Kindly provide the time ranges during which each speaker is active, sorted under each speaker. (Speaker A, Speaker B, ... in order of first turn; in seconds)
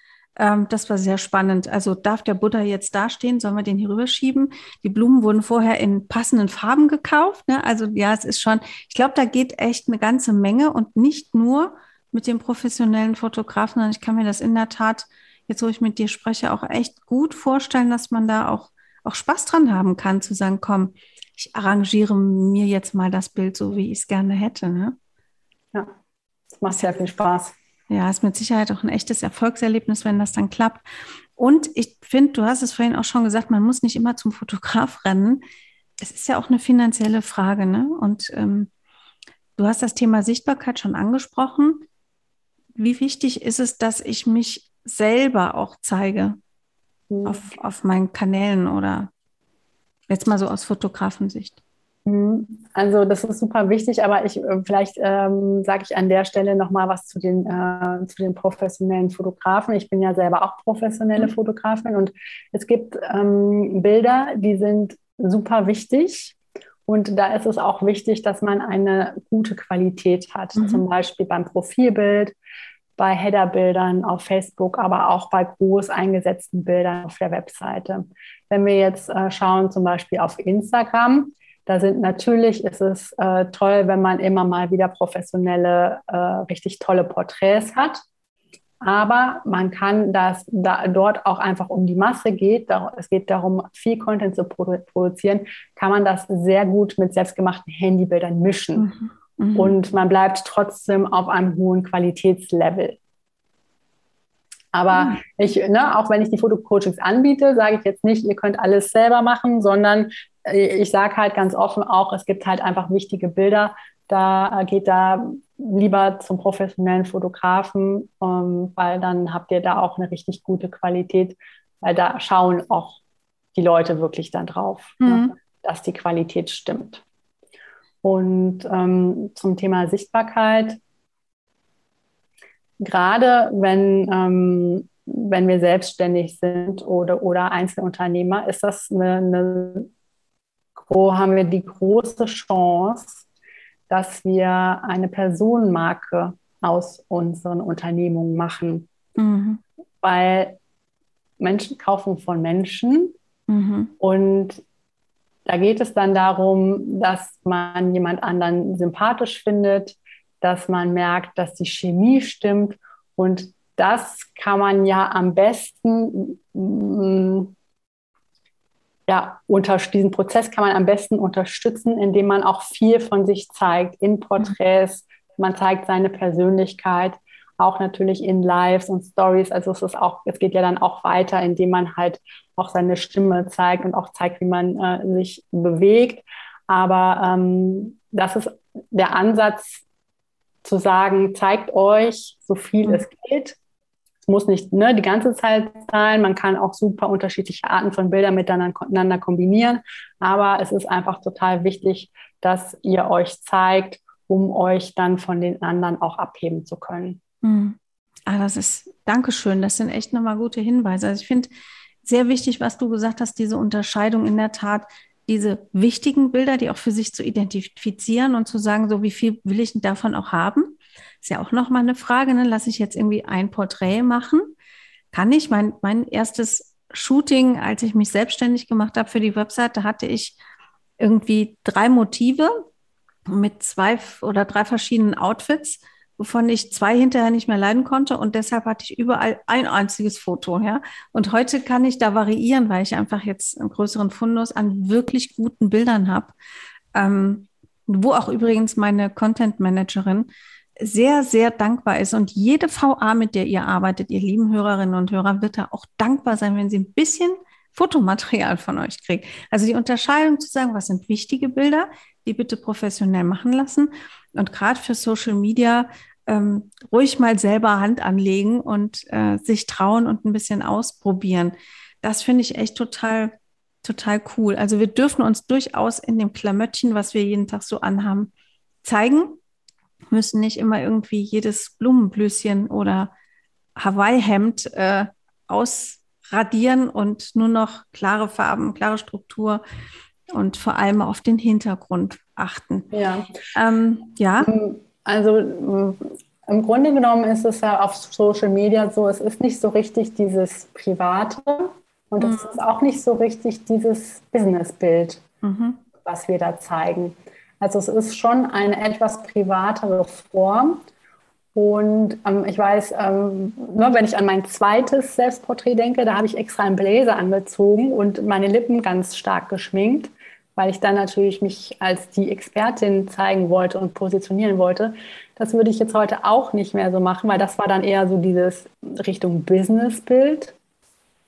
Speaker A: 0.4-24.9, 27.9-30.8, 31.4-35.4, 36.0-38.7, 39.6-41.9, 42.8-46.4, 47.2-49.1, 50.1-51.6, 70.5-70.8, 98.8-99.8, 104.9-105.2, 125.0-125.3, 149.2-149.6, 153.5-153.9, 207.4-211.5, 212.0-224.5, 225.1-230.4, 231.0-232.7, 233.3-246.3, 246.9-278.3, 278.8-279.4, 280.1-283.1, 283.8-289.6, 290.3-292.9, 293.5-294.5, 302.2-302.6, 305.4-305.8
Speaker B: 26.6-27.5, 47.1-47.5, 52.0-72.3, 73.0-88.0, 88.8-98.9, 99.5-103.0, 104.7-123.0, 123.5-127.0, 128.0-130.8, 132.8-139.9, 140.8-143.2, 143.9-148.9, 150.0-150.6, 151.4-153.1, 154.0-154.6, 155.4-167.5, 169.1-189.8, 190.6-193.6, 194.2-207.2, 292.9-293.3, 294.4-305.2, 306.0-310.8, 311.5-330.5